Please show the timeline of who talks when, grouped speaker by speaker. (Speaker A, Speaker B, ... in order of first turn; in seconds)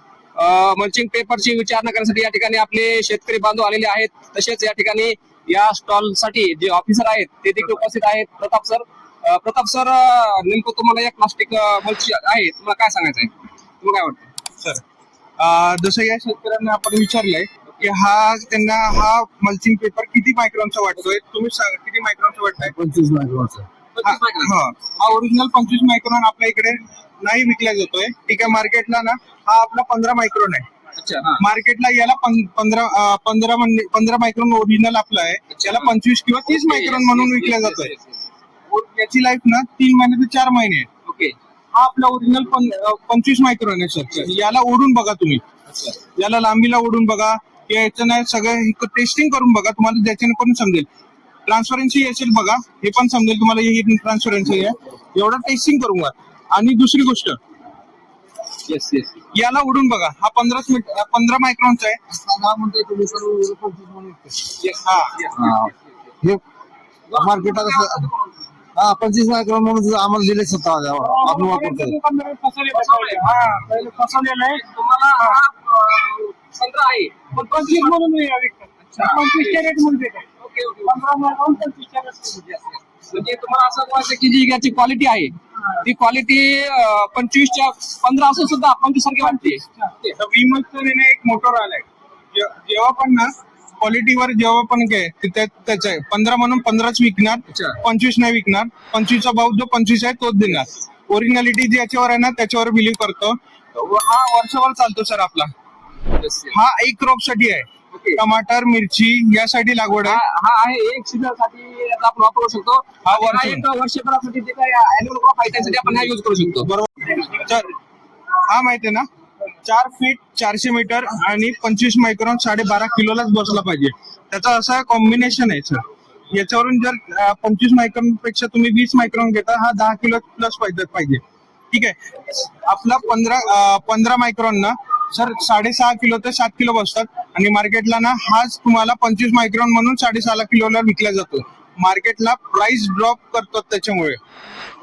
Speaker A: 0.4-14.3, 24.0-24.5, 31.0-31.4, 35.5-35.9, 36.5-38.3, 41.0-41.3, 45.7-46.0, 58.6-59.1, 64.6-65.7, 67.1-68.5, 72.7-73.3, 74.5-78.0, 78.8-79.6, 80.4-81.0, 82.5-90.1, 97.5-97.8, 106.2-106.5, 107.9-108.2, 110.0-116.7
Speaker B: 15.4-22.7, 24.0-30.6, 31.4-37.9, 38.7-40.9, 41.8-45.4, 46.2-50.9, 51.5-57.4, 59.3-62.0, 64.8-65.1, 90.2-105.5, 106.5-110.2, 113.0-113.6, 116.6-117.7, 118.5-119.0, 119.6-131.2, 131.7-144.2
Speaker C: 22.6-23.7, 62.1-64.5, 65.3-66.4, 67.1-68.0, 68.8-72.0
Speaker D: 71.0-74.6, 77.3-80.2, 80.8-82.5, 89.2-89.9